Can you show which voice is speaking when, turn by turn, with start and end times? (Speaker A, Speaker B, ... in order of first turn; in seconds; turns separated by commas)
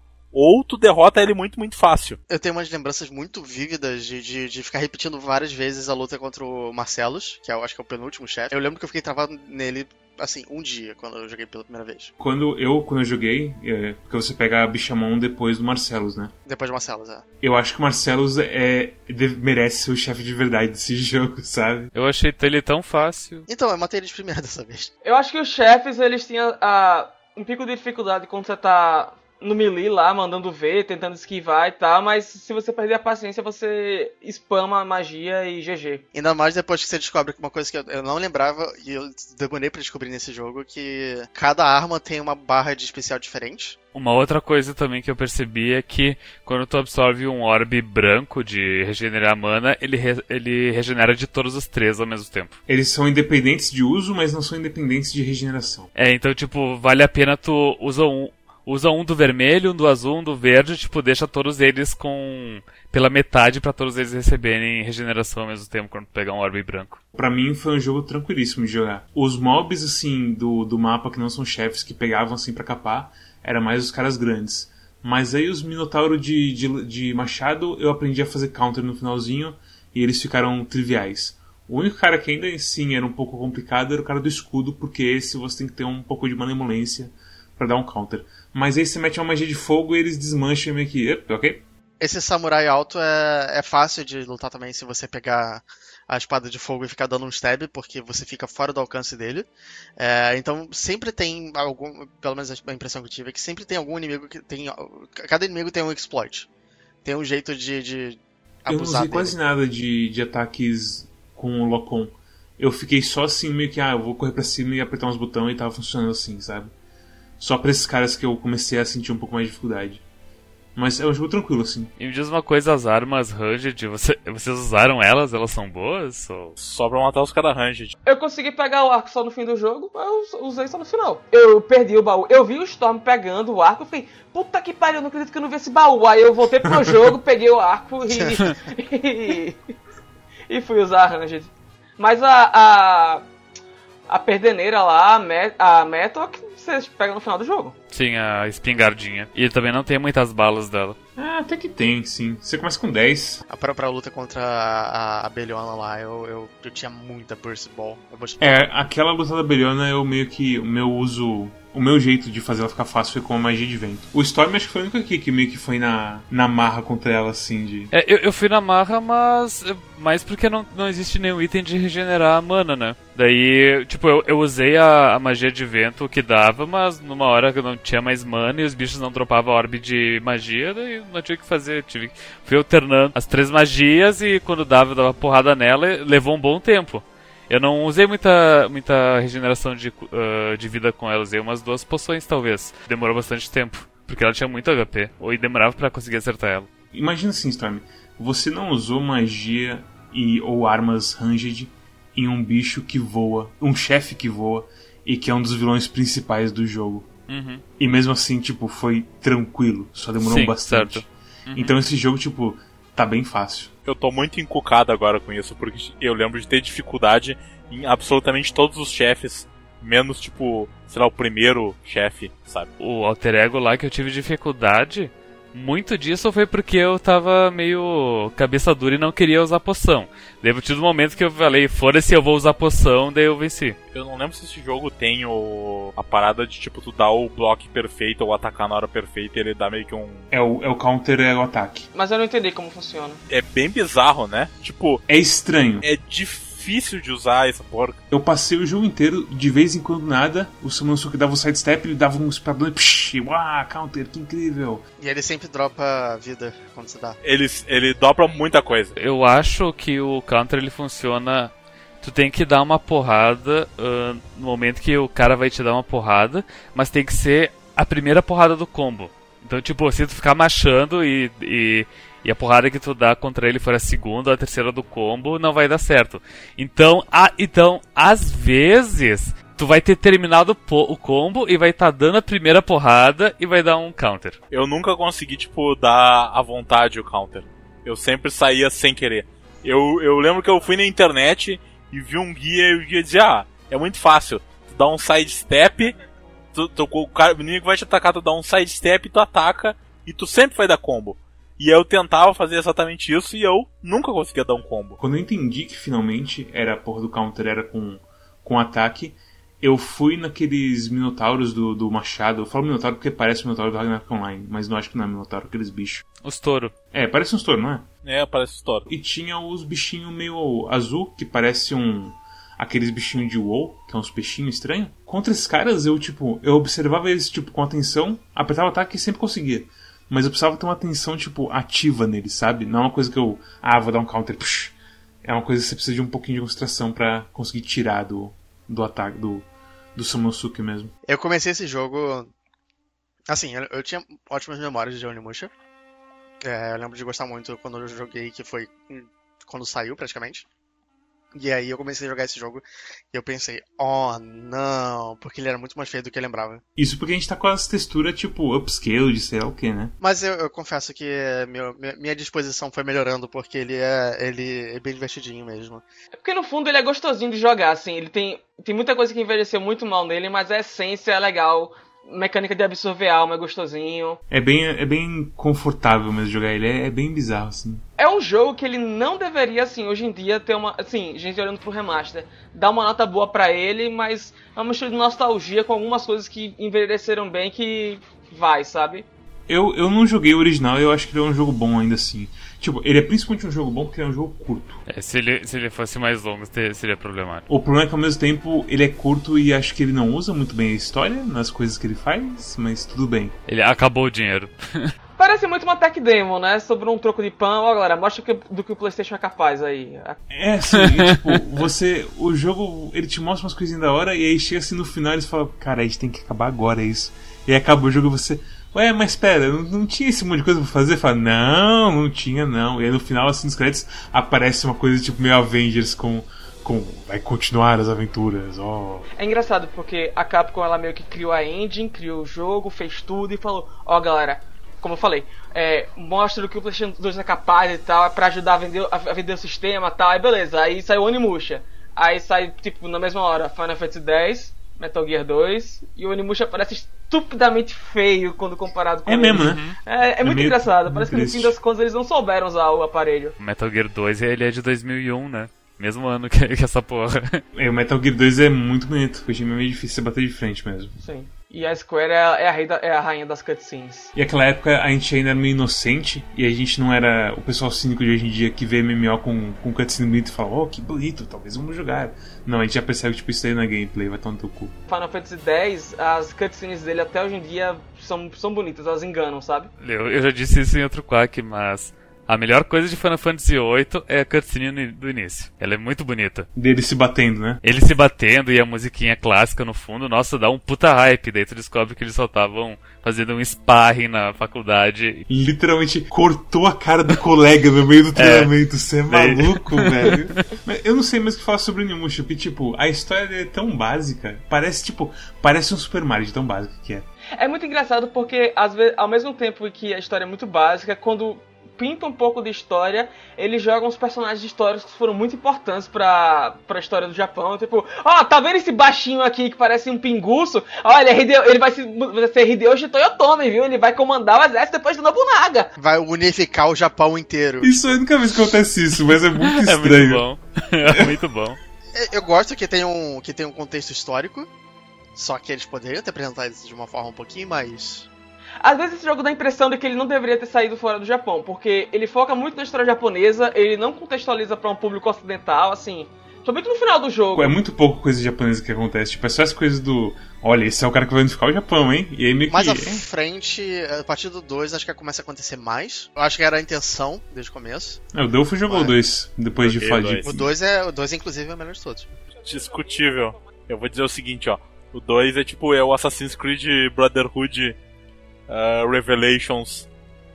Speaker A: 0.3-2.2, Speaker B: 2.3-12.1, Speaker C: 12.2-16.3, Speaker B: 16.4-17.2, Speaker C: 17.4-21.9, Speaker D: 21.9-23.5, Speaker B: 23.5-24.9, Speaker E: 25.0-36.0, Speaker B: 36.1-43.8, Speaker D: 43.9-52.6, Speaker C: 52.7-55.9, Speaker D: 56.0-67.0, Speaker C: 67.2-91.6, Speaker B: 92.0-99.5, Speaker B: 100.0-106.5, Speaker B: 107.0-109.3, Speaker C: 108.7-116.7, Speaker C: 117.4-120.0, Speaker C: 120.8-121.9, Speaker D: 122.0-126.6, Speaker A: 126.6-127.9, Speaker E: 128.1-139.6, Speaker B: 138.1-138.5, Speaker E: 140.5-143.2, Speaker E: 144.1-147.8, Speaker D: 147.9-151.0, Speaker C: 151.2-153.4, Speaker B: 153.5-158.4, Speaker C: 158.4-167.9, Speaker D: 167.9-196.7, Speaker C: 196.9-207.1, Speaker D: 207.3-207.6, Speaker C: 207.8-213.7, Speaker D: 210.2-211.8, Speaker A: 213.8-222.7, Speaker D: 222.8-233.8, Speaker A: 233.9-240.3, Speaker C: 240.3-241.9, Speaker E: 241.9-243.2, Speaker A: 243.3-245.0, Speaker C: 245.1-245.9, Speaker A: 245.8-248.0, Speaker C: 248.1-254.8, Speaker B: 255.0-257.2, Speaker A: 257.2-258.9, Speaker D: 259.0-284.4, Speaker A: 284.5-295.9, Speaker A: 296.5-305.0, Speaker C: 305.0-316.1, Speaker D: 316.2-316.7, Speaker C: 316.9-317.9, Speaker A: 318.0-318.9, Speaker C: 318.9-340.9, Speaker B: 341.1-342.3, Speaker B: 343.3-345.5, Speaker B: 346.4-350.5, Speaker B: 351.3-356.6, Speaker C: 356.8-359.9, Speaker B: 360.0-365.8, Speaker E: 366.2-374.2, Speaker C: 374.3-377.8, Speaker E: 378.0-389.1, Speaker C: 389.5-394.8, Speaker D: 394.9-397.5, Speaker C: 397.5-403.3, Speaker D: 403.5-404.9, Speaker E: 405.2-410.2, Speaker C: 410.3-429.1, Speaker D: 410.8-411.2, Speaker E: 429.2-453.4, Speaker C: 449.1-449.6, Speaker D: 449.4-449.8, Speaker C: 450.2-451.6, Speaker D: 453.4-457.4, Speaker C: 457.6-460.9, Speaker E: 461.0-464.1, Speaker C: 464.1-474.7, Speaker E: 474.9-479.7, Speaker D: 479.8-486.5, Speaker C: 486.6-487.6, Speaker D: 487.6-495.2, Speaker C: 495.3-507.1, Speaker D: 498.2-498.5, Speaker D: 499.1-500.5, Speaker E: 507.4-525.7, Speaker B: 525.8-528.0, Speaker C: 527.6-530.2, Speaker D: 529.4-531.6, Speaker C: 530.9-531.1, Speaker B: 531.9-534.5, Speaker B: 535.1-538.1, Speaker E: 538.6-547.5, Speaker C: 547.3-553.0, Speaker B: 552.5-558.0, Speaker C: 558.1-560.5, Speaker B: 558.7-559.0, Speaker A: 559.6-560.3, Speaker B: 560.2-562.1, Speaker A: 562.5-567.8, Speaker A: 568.5-569.9